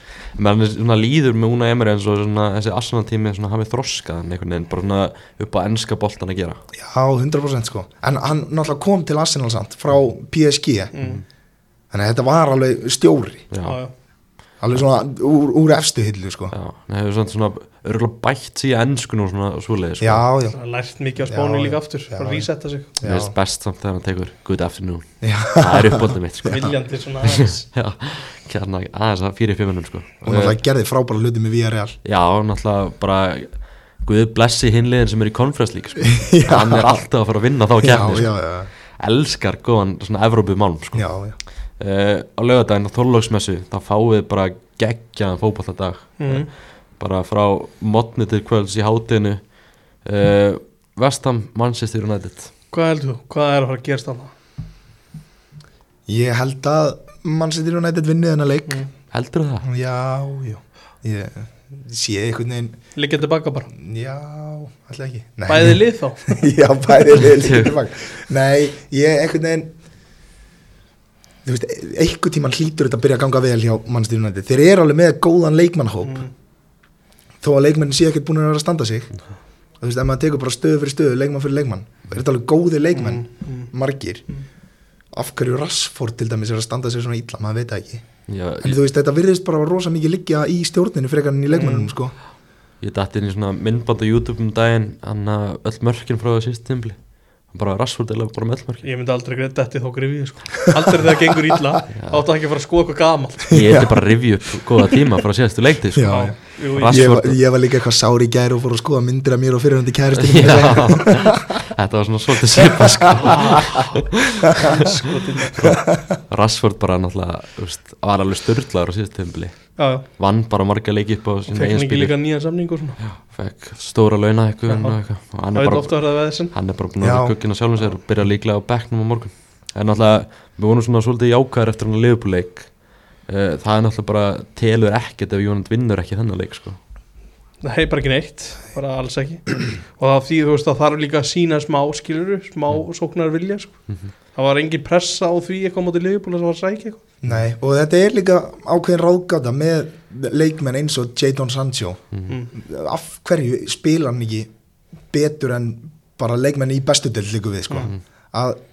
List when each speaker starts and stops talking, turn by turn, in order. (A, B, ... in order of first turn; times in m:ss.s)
0:00.4-0:06.6 A
0:06.7-0:10.9 B
0:10.9-0:11.2 C
0:11.9-0:13.4 B
0:13.5-0:13.8 A
0:13.6-0:13.9 C
0:14.6-0:16.5 B
0:16.5-0:20.2 A
0:20.0-0:20.6 B
0:20.5-0:22.9 C
0:21.3-0:23.3 B
0:23.0-0:30.6 A
0:25.2-0:26.7 B
0:26.5-0:27.6 C
0:30.2-0:32.0 B
0:32.0-0:38.4 A
0:36.0-0:37.0 B
0:37.8-0:38.7 B
0:39.0-0:41.1 A
0:40.9-0:41.4 B
0:41.8-0:49.4 A
0:46.2-0:46.5 C
0:50.0-0:52.5 A
0:52.7-0:54.3 C
0:56.1-0:58.8 B
0:59.1-0:59.7 A
0:59.6-1:02.8 B
1:02.9-1:03.7 C
1:03.7-1:09.7 B
1:05.5-1:06.4 C
1:07.3-1:07.7 A
1:11.4-1:16.2 B
1:16.0-1:16.3 C
1:17.4-1:19.1 B
1:19.8-1:24.2 B
1:22.9-1:23.7 C
1:25.1-1:28.0 B
1:28.3-1:28.8 A
1:28.6-1:32.1 B
1:31.5-1:31.9 C
1:32.8-1:37.0 A
1:37.5-1:38.8 A
1:38.8-1:43.6 C
1:41.9-1:42.2 A
1:43.5-1:43.9 B
1:43.5-1:47.4 A
1:45.9-1:51.6 B
1:46.1-1:47.1 C
1:50.1-1:55.0 A
1:52.5-1:53.8 B
1:54.6-1:55.7 C
1:55.5-2:02.2 A
1:55.6-1:56.2 B
1:59.8-2:00.0 C
2:01.5-2:03.0 C
2:03.0-2:12.7 A
2:04.7-2:05.0 C
2:05.5-2:06.5 C
2:07.0-2:07.3 B
2:13.2-2:16.8 A
2:17.6-2:23.8 C
2:24.3-2:27.0 C
2:27.2-2:34.5 B
2:35.1-2:38.6 B